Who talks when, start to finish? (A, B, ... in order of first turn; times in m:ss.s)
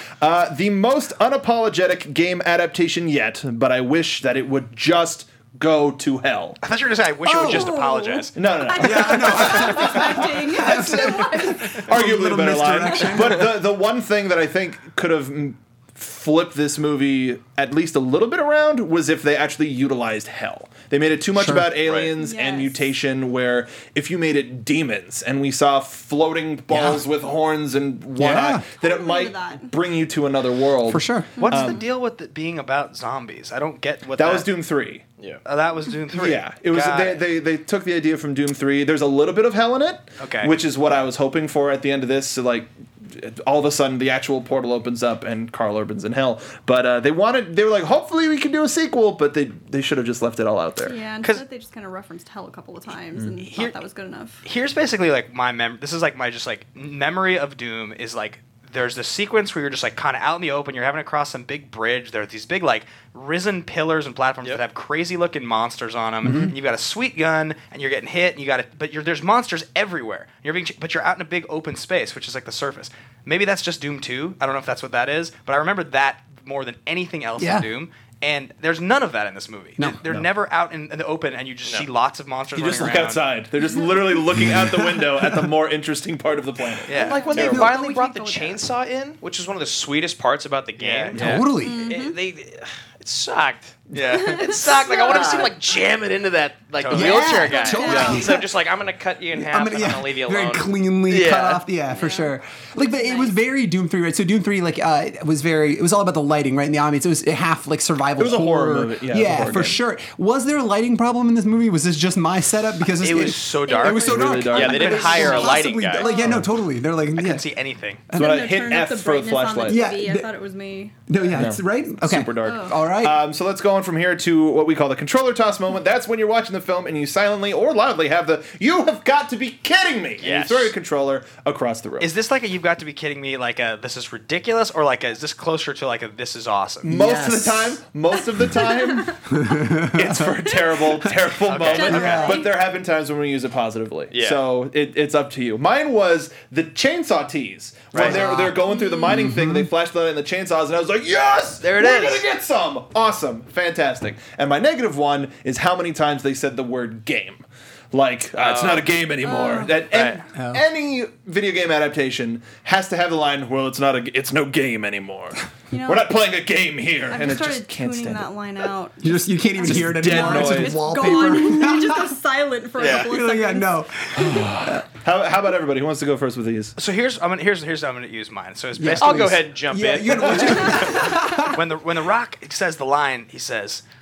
0:00.2-0:06.6 A
0:06.6-0:08.4 B
0:07.2-0:07.7 C
0:07.4-0:11.8 D
0:08.4-0:31.8 A
0:08.8-0:13.6 C
0:21.4-0:21.8 C
0:22.1-0:22.8 D
0:26.7-0:27.0 C
0:28.2-0:28.6 C
0:28.8-0:29.8 D
0:30.9-0:31.3 C
0:31.4-0:31.8 D
0:31.4-0:34.5 B
0:34.2-0:35.0 A
0:35.4-0:37.2 B
0:36.1-0:51.0 A
0:40.2-0:40.5 B
0:50.8-0:54.4 D
0:53.4-0:53.8 B
0:54.4-1:23.3 B
1:06.2-1:06.5 C
1:17.4-1:17.7 C
1:22.6-1:27.6 A
1:22.6-1:23.0 C
1:24.4-1:25.5 C
1:26.9-1:27.4 B
1:26.9-1:28.6 D
1:26.9-1:41.6 E
1:30.8-1:31.4 B
1:31.1-1:31.9 C
1:31.2-1:31.4 A
1:31.6-1:32.2 D
1:33.9-1:34.9 B
1:34.1-1:35.6 D
1:36.8-1:37.8 B
1:36.9-1:38.5 C
1:37.4-1:38.4 D
1:37.9-1:38.2 A
1:39.3-1:57.5 C
1:41.9-1:43.3 D
1:48.2-1:49.8 A
1:53.0-1:55.6 B
1:53.7-1:56.4 D
1:54.1-1:55.2 A
1:54.5-1:56.2 E
1:57.1-1:58.0 B
1:58.1-1:58.4 C
1:58.1-2:01.0 D
1:58.2-1:59.8 A
1:59.7-2:00.3 C
2:01.1-2:03.2 C
2:01.3-2:12.1 A
2:02.4-2:02.8 D
2:10.2-2:10.7 E
2:12.0-2:16.9 B
2:16.8-2:19.2 A
2:16.8-2:17.8 C
2:19.3-2:21.2 C
2:19.8-2:48.3 A
2:21.5-2:22.4 B
2:21.6-2:22.5 D
2:21.8-2:22.4 C
2:24.1-2:24.4 E
2:28.0-2:29.7 C
2:28.6-2:29.2 D
2:31.6-2:32.3 E
2:38.4-2:38.9 E
2:39.2-2:39.8 D
2:39.9-2:40.2 E
2:40.4-2:40.6 C
2:45.7-2:46.1 D
2:47.1-2:53.7 D
2:49.0-2:52.1 C
2:49.6-2:51.0 A
2:52.8-2:53.1 E
2:52.8-2:54.8 C
2:54.2-2:56.8 A
2:56.8-2:59.4 B
2:58.8-3:01.6 C
2:59.0-3:00.9 E
3:00.4-3:03.8 B